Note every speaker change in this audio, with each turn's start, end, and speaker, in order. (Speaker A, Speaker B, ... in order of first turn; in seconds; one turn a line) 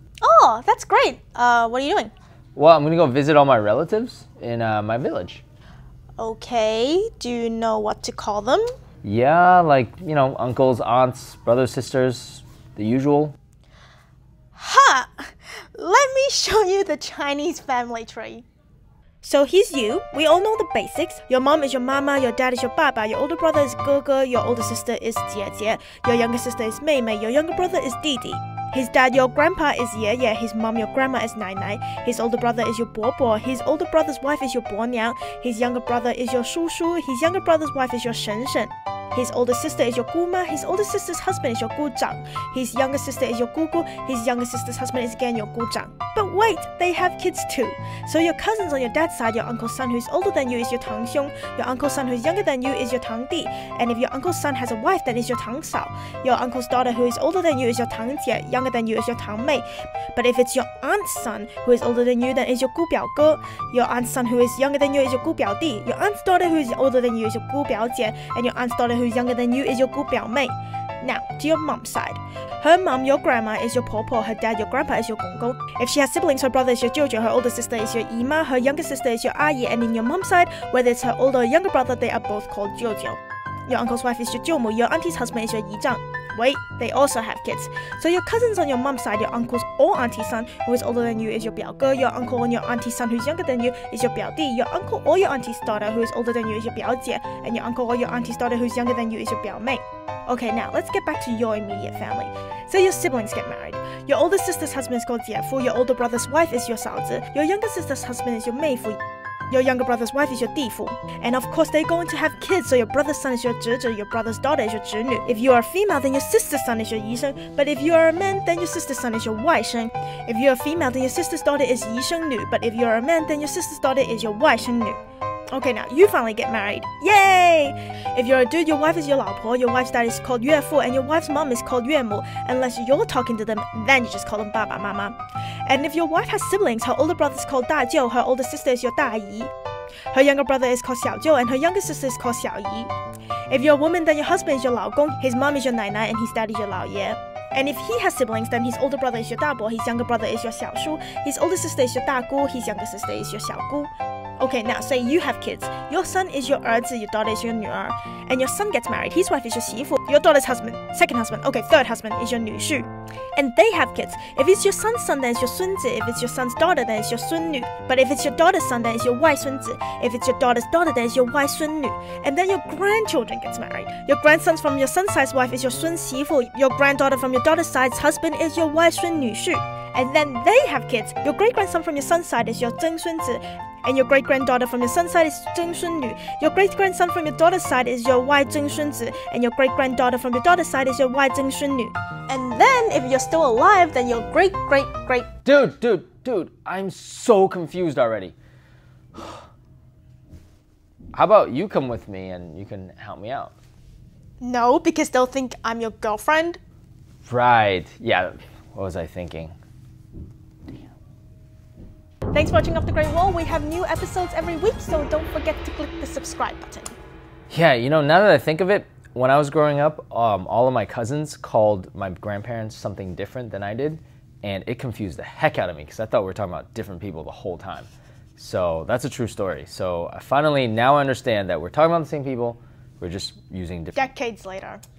Speaker A: 0.2-2.1
Speaker B: 2.6-5.4
Speaker A: 6.2-8.7
Speaker B: 9.0-13.4
Speaker A: 14.6-18.4
Speaker A: 19.2-125.0
Speaker A: 125.5-139.5
Speaker A: 140.1-142.9
Speaker A: 143.5-195.3
Speaker B: 195.4-198.3
Speaker B: 201.1-203.5
Speaker A: 204.4-206.6
Speaker B: 207.2-209.6
Speaker A: 212.3-217.0
Speaker B: 217.5-234.1
Speaker A: 233.9-234.8